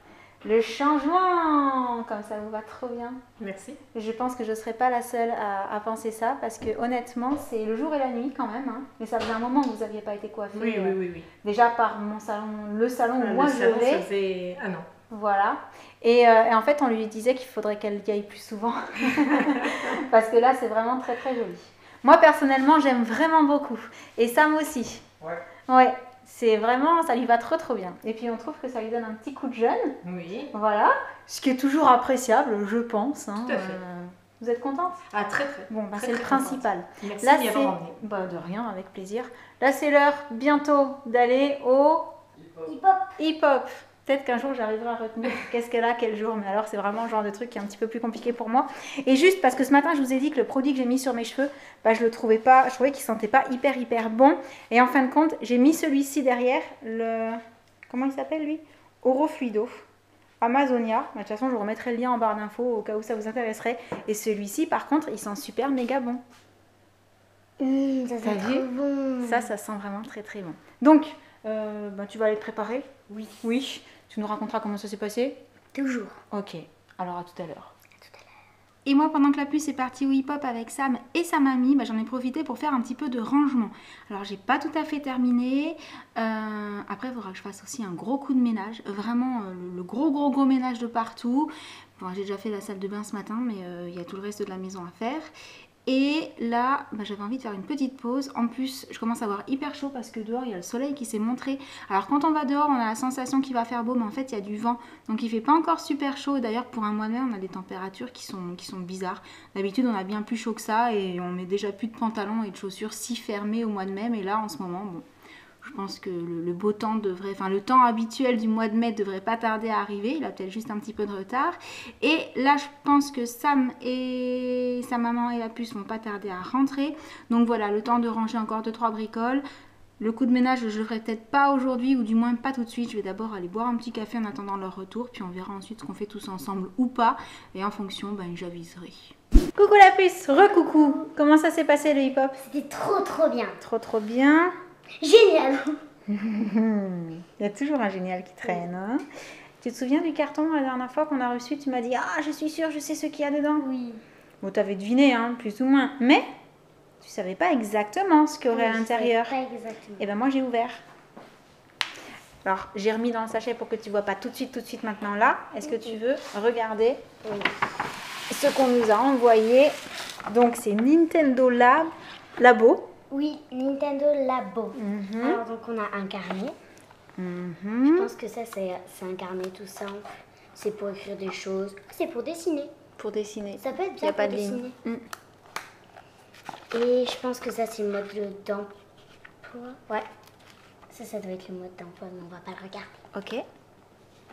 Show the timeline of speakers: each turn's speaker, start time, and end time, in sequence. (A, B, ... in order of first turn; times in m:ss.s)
0:00.4-0:03.2 A
0:03.4-0:03.8 B
0:03.9-0:14.1 A
0:10.5-0:11.3 B
0:13.2-0:14.9 B
0:15.1-0:25.0 A
0:25.7-0:30.0 A
0:30.0-0:30.5 B
0:30.5-0:35.1 A
0:33.5-0:33.8 B
0:35.1-0:38.0 B
0:35.7-0:42.2 A
0:42.6-0:43.2 C
0:43.2-0:59.9 A
1:00.4-1:06.2 A
1:07.6-1:09.5 C
1:08.2-1:08.7 A
1:09.2-1:12.9 A
1:13.1-1:13.4 C
1:13.4-1:15.4 A
1:15.7-1:16.2 C
1:16.3-1:17.7 A
1:18.8-1:35.3 A
1:35.8-1:55.1 A
1:55.6-2:09.4 A
2:10.0-2:22.4 A
2:22.4-2:23.6 C
2:23.6-2:24.6 A
2:25.0-2:25.8 C
2:26.1-2:29.0 A
2:29.6-2:33.7 A
2:33.6-2:34.0 C
2:34.4-2:36.3 A
2:37.0-2:39.4 A
2:38.5-2:40.1 C
2:40.0-2:40.8 A
2:42.4-2:47.0 A
2:47.2-2:47.6 C
2:48.3-2:52.9 A
2:53.1-2:56.6 C
2:54.8-2:55.4 A
2:57.2-2:58.1 A
2:57.9-3:02.7 C
3:03.0-3:05.1 A
3:03.6-3:04.8 C
3:06.7-3:08.7 C
3:09.4-3:10.1 C
3:10.9-3:13.0 C
3:13.1-3:13.4 A